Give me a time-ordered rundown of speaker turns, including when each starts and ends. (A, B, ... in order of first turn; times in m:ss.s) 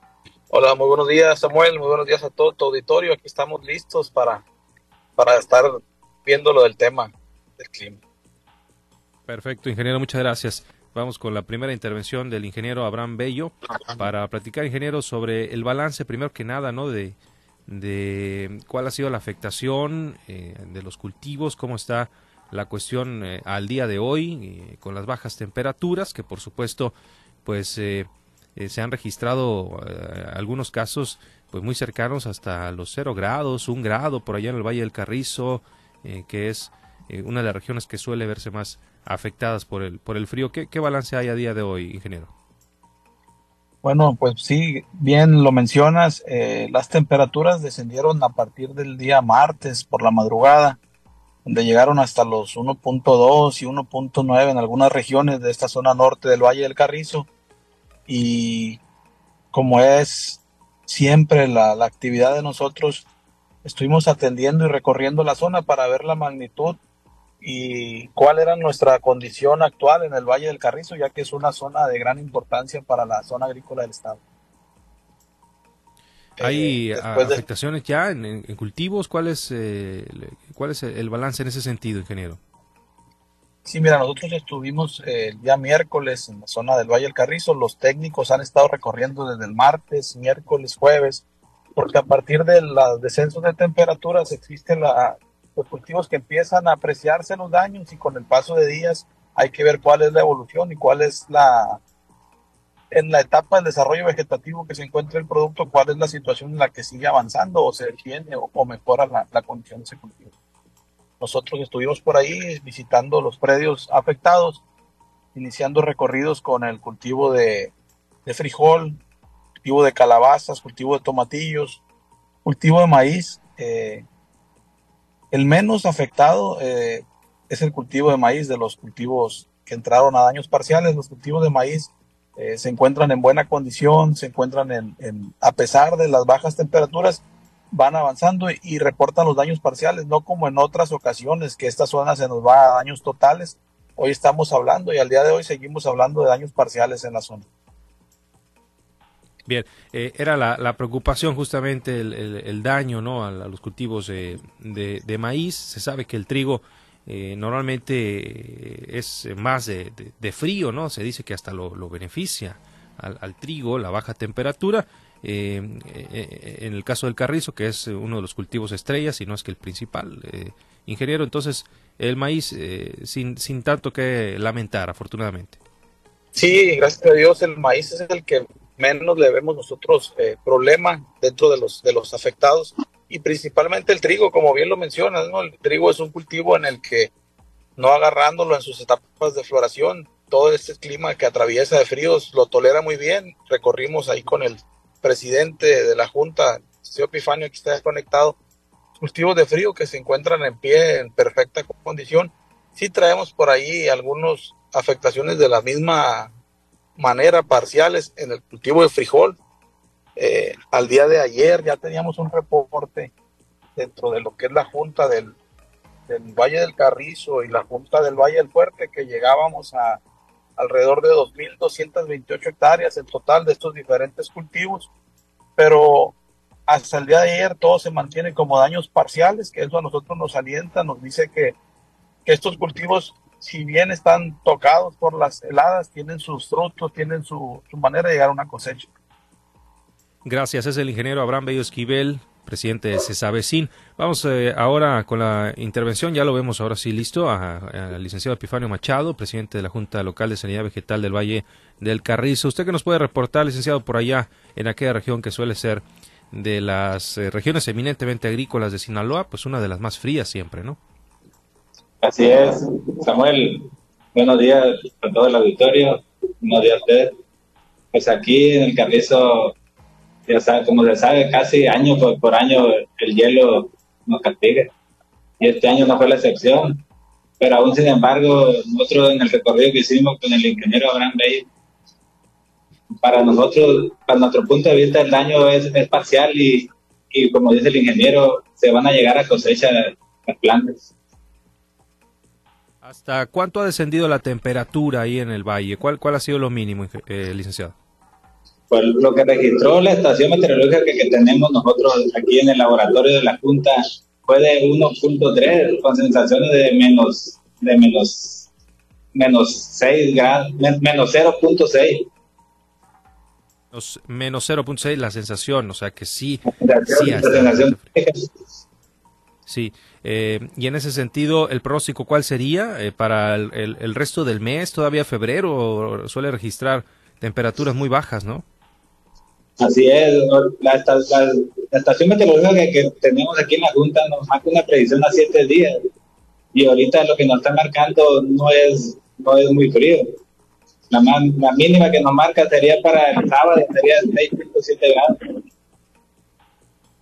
0:00.5-0:04.4 A
0:05.2-0:08.0 A
0:09.3-0:17.2 B
0:17.7-0:26.9 B
0:27.4-0:42.3 B
0:43.8-0:50.8 A
0:51.4-0:57.3 A
0:58.1-0:58.8 A
0:59.5-1:03.0 A
1:03.6-1:06.8 A
1:07.4-1:14.2 A
1:16.4-1:17.4 A
1:16.4-1:22.4 B
1:23.6-1:31.2 A
1:31.7-1:41.8 A
1:42.9-1:50.3 A
1:51.2-1:54.6 A
1:55.3-1:57.7 A
1:58.2-1:59.0 A
1:59.6-2:01.8 A
2:02.4-2:04.0 A
2:05.3-2:27.5 A
2:29.4-2:55.6 B
2:56.3-3:07.1 A
3:07.8-3:18.4 A
3:19.0-3:26.3 A
3:27.0-3:29.4 A
3:30.2-3:33.1 A
3:33.8-3:35.4 A
3:36.1-3:40.0 A
3:40.6-3:44.9 A
3:45.6-3:46.2 A
3:46.7-3:51.6 A
3:52.2-3:58.9 A
4:00.2-4:20.8 B
4:22.0-4:27.2 C
4:27.9-4:29.5 C
4:30.3-4:34.7 C
4:35.4-4:36.8 C
4:37.4-4:41.5 C
4:43.0-4:50.9 C
4:52.8-4:57.7 B
4:58.7-5:08.5 C
5:09.1-5:12.1 C
5:13.7-5:17.9 B
5:16.5-5:18.3 C
5:19.5-5:28.4 B
5:29.6-5:35.8 C
5:36.5-5:40.2 C
5:40.9-5:45.4 C